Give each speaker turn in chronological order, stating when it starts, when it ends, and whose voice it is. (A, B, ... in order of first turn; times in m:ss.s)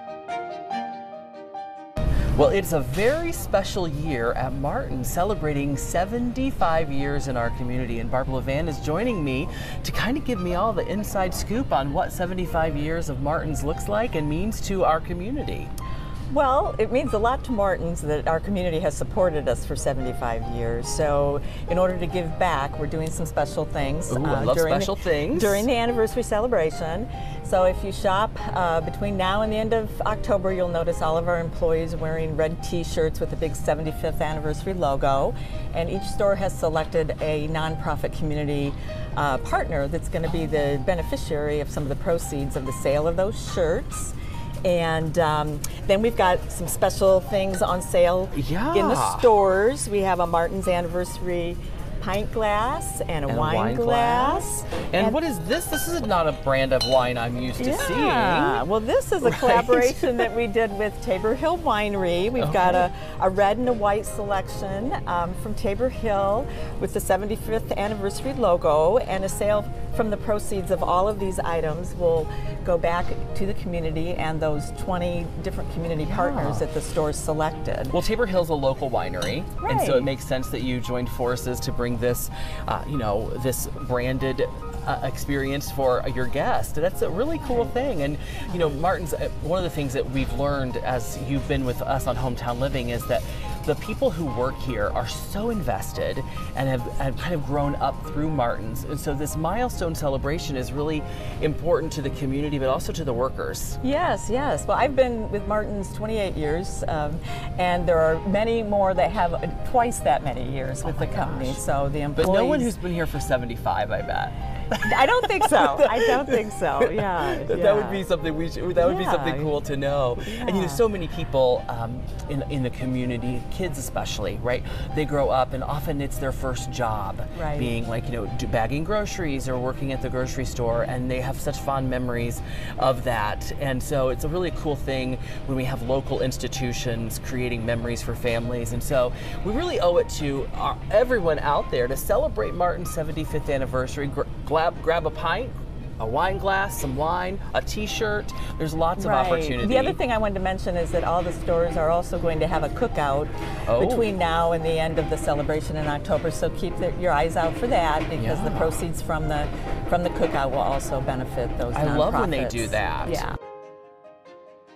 0:02.3-0:15.7 A
0:16.3-0:55.2 B
0:24.1-0:25.7 A
0:48.3-0:49.3 A
0:53.3-0:58.6 A
0:57.6-1:18.0 B
0:59.2-1:00.3 A
1:02.4-1:02.9 A
1:16.0-1:16.6 A
1:17.9-1:43.8 A
1:19.6-1:20.1 B
1:43.8-1:52.7 B
1:50.8-1:51.6 A
1:52.2-2:30.0 A
1:54.8-1:58.0 B
1:58.8-1:59.5 B
2:00.2-2:00.8 B
2:07.3-2:07.7 B
2:29.0-2:43.3 B
2:33.7-2:34.1 A
2:38.2-2:38.8 A
2:41.7-2:43.2 A